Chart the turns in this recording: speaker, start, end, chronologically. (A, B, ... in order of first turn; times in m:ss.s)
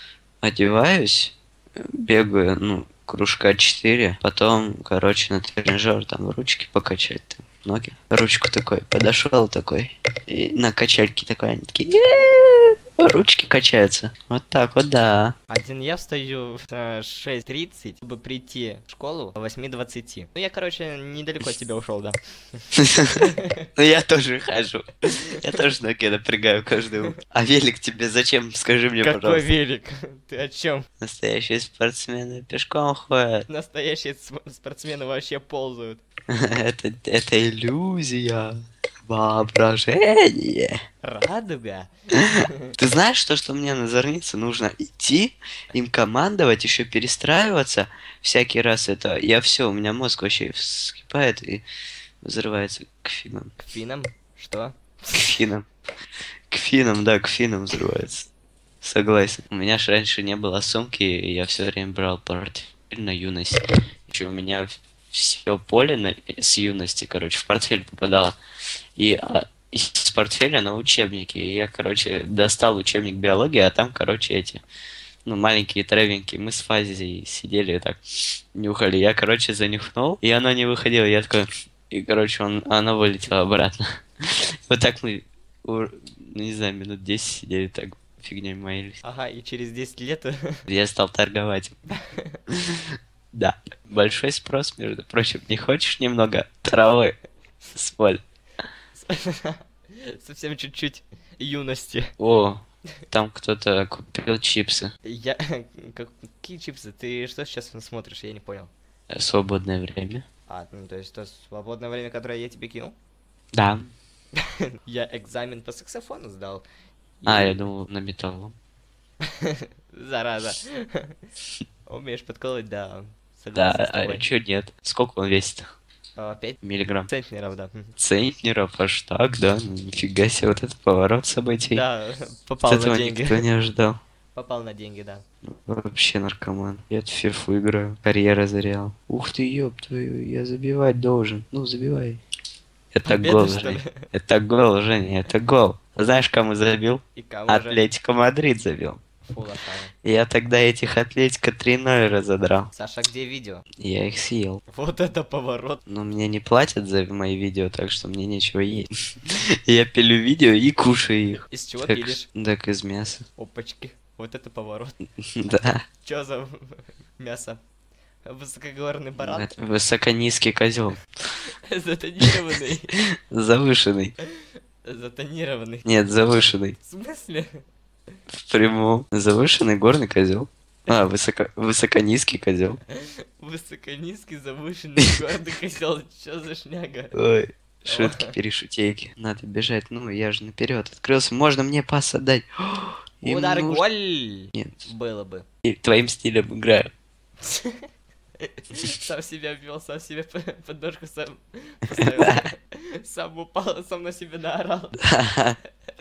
0:00.4-0:15.4 A
0:15.5-0:22.2 B
0:22.8-0:29.5 A
0:23.1-0:23.7 B
0:29.0-0:30.9 B
0:31.0-0:33.5 A
0:33.5-0:36.0 B
0:36.3-0:40.8 A
0:41.0-0:42.7 B
0:42.2-0:51.6 A
0:52.2-0:53.6 A
0:53.6-0:55.3 B
0:55.1-0:55.7 A
0:56.5-0:58.3 A
0:58.8-1:08.4 A
1:09.0-1:14.6 A
1:15.3-1:18.0 A
1:18.6-1:29.0 A
1:29.0-1:30.6 B
1:30.7-1:31.8 A
1:32.0-1:32.4 B
1:32.5-1:38.2 A
1:39.0-1:42.1 B
1:42.2-1:44.9 A
1:45.0-1:48.7 B
1:49.1-1:50.2 A
1:50.5-1:53.0 B
1:53.5-1:53.8 A
1:54.4-1:56.6 B
1:57.2-1:57.7 B
1:57.3-1:58.6 A
1:59.2-2:01.2 B
2:01.9-2:04.3 B
2:03.6-2:05.7 A
2:06.2-2:07.9 B
2:06.6-2:07.1 A
2:08.0-2:11.8 A
2:11.7-2:13.4 B
2:12.7-2:14.0 A
2:14.4-2:15.2 B
2:15.4-2:22.2 A
2:22.9-2:29.0 A
2:23.0-2:24.1 B
2:27.2-2:27.8 B
2:29.3-2:29.9 B
2:30.0-2:32.7 A
2:32.7-2:33.6 B
2:33.8-2:34.6 A
2:34.7-2:35.8 B
2:35.9-2:43.3 A
2:41.5-2:42.3 B
2:43.4-2:47.6 B
2:45.4-2:45.8 A
2:48.3-2:49.6 B
2:49.2-2:51.0 A
2:51.7-2:53.0 B
2:53.3-2:54.2 A
2:54.8-2:55.9 B
2:55.8-2:56.8 A
2:56.8-2:57.6 B
2:58.3-3:02.8 A
3:03.4-3:07.2 B
3:07.1-3:13.8 A
3:07.9-3:08.3 B
3:13.2-3:15.4 B
3:14.5-3:14.9 A
3:15.6-3:16.9 A
3:17.4-3:17.8 B
3:18.4-3:25.0 B
3:21.9-3:22.4 A
3:25.0-3:25.6 A